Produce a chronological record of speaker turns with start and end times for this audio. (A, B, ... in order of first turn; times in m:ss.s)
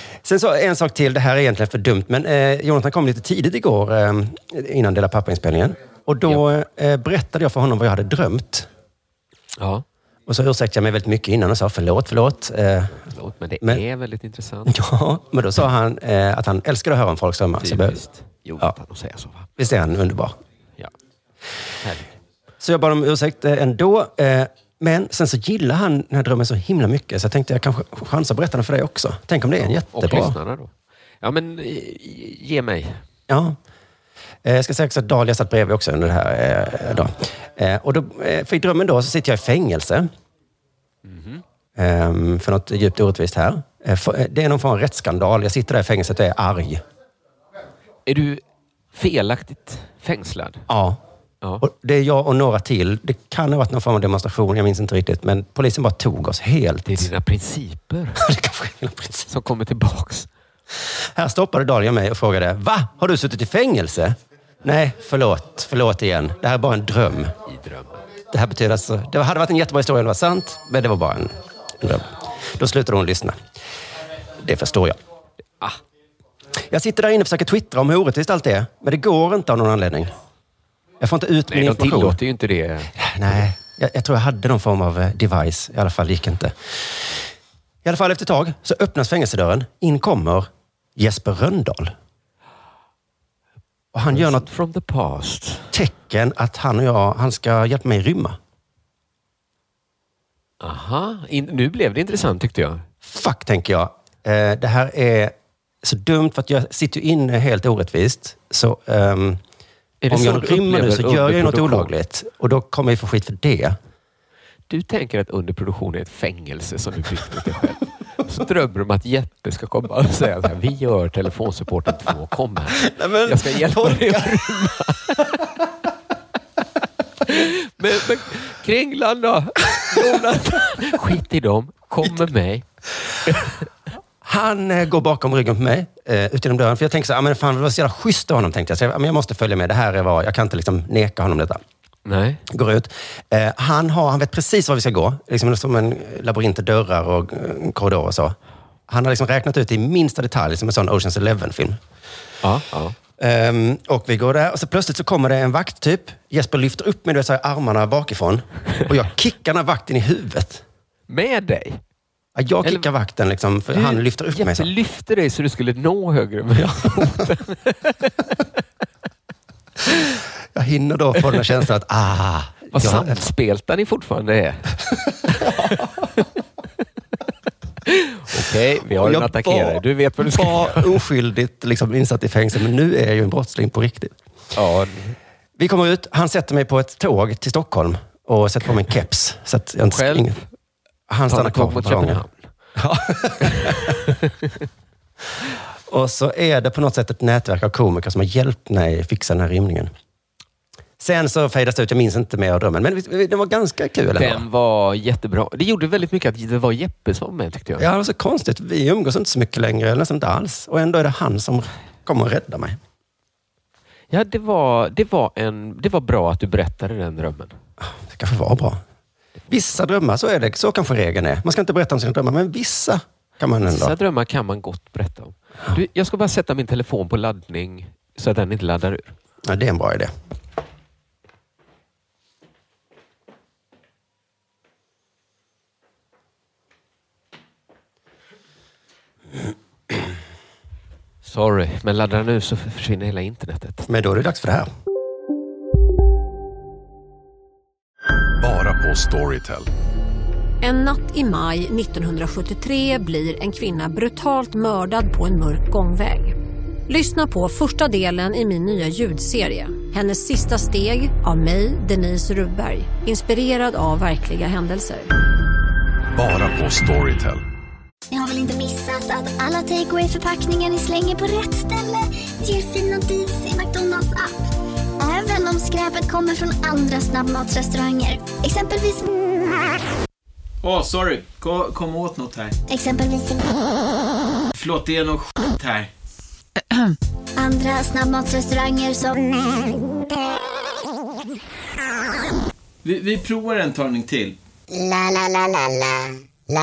0:00.2-0:08.7 A
0:09.6-0:09.8 B
0:10.3-0:13.0 A
0:13.0-0:14.8 B
0:14.7-0:18.0 A
0:17.6-0:19.5 B
0:19.6-0:20.4 A
0:21.8-0:22.1 B
0:22.6-0:30.4 A
0:29.9-0:33.0 B
0:33.3-0:33.6 A
0:34.4-0:40.1 A
0:41.0-0:41.4 B
0:41.8-0:46.8 A
0:48.1-0:50.6 B
0:50.7-0:51.0 A
0:51.6-0:57.1 A
0:56.8-0:58.2 B
0:58.2-0:59.3 A
0:59.3-1:00.3 B
1:01.2-1:07.3 A
1:07.5-1:08.0 B
1:08.3-1:13.4 A
1:14.4-1:15.0 A
1:16.7-1:20.1 A
1:21.0-1:22.2 A
1:21.5-1:23.4 B
1:22.9-1:27.2 A
1:27.8-1:32.0 A
1:33.9-1:34.5 A
1:34.1-1:35.7 B
1:35.7-1:38.4 A
1:40.6-1:42.9 B
1:43.0-1:49.4 A
1:50.0-1:51.9 B
1:50.1-1:53.8 A
1:54.7-2:05.4 B
2:02.8-2:04.4 A
2:07.2-2:12.7 B
2:13.3-2:13.6 B
2:14.2-2:21.6 A
2:22.1-2:22.4 B
2:22.5-2:28.4 A
2:28.9-2:31.8 A
2:32.4-2:33.0 B
2:33.2-2:40.6 A
2:41.1-2:41.8 B
2:42.4-2:44.7 A
2:43.7-2:48.1 B
2:50.5-2:53.2 A
2:52.7-2:54.8 B
2:55.3-2:56.2 B
2:55.4-2:55.9 A
2:57.9-3:01.0 B
2:58.9-3:04.2 A
3:04.6-3:05.2 B
3:05.6-3:10.4 A
3:09.9-3:10.5 B
3:11.1-3:12.2 A
3:11.3-3:12.5 B
3:12.8-3:14.0 A
3:13.4-3:14.5 B
3:15.9-3:19.9 A
3:21.0-3:24.4 A
3:24.2-3:27.9 B
3:27.8-3:32.8 A
3:34.1-3:37.6 B
3:37.8-3:38.8 A
3:39.5-3:44.0 A
3:43.6-3:49.2 B
3:49.4-3:50.1 A
4:01.2-4:03.9 B
4:03.9-4:04.7 A
4:08.4-4:09.7 C
4:10.6-4:16.4 D
4:16.9-4:25.1 D
4:26.1-4:27.4 C
4:28.1-4:34.4 E
4:35.0-4:39.2 E
4:40.6-4:42.6 F
4:42.7-4:43.7 E
4:44.5-4:45.9 F
4:47.4-4:49.8 E
4:52.8-4:54.4 F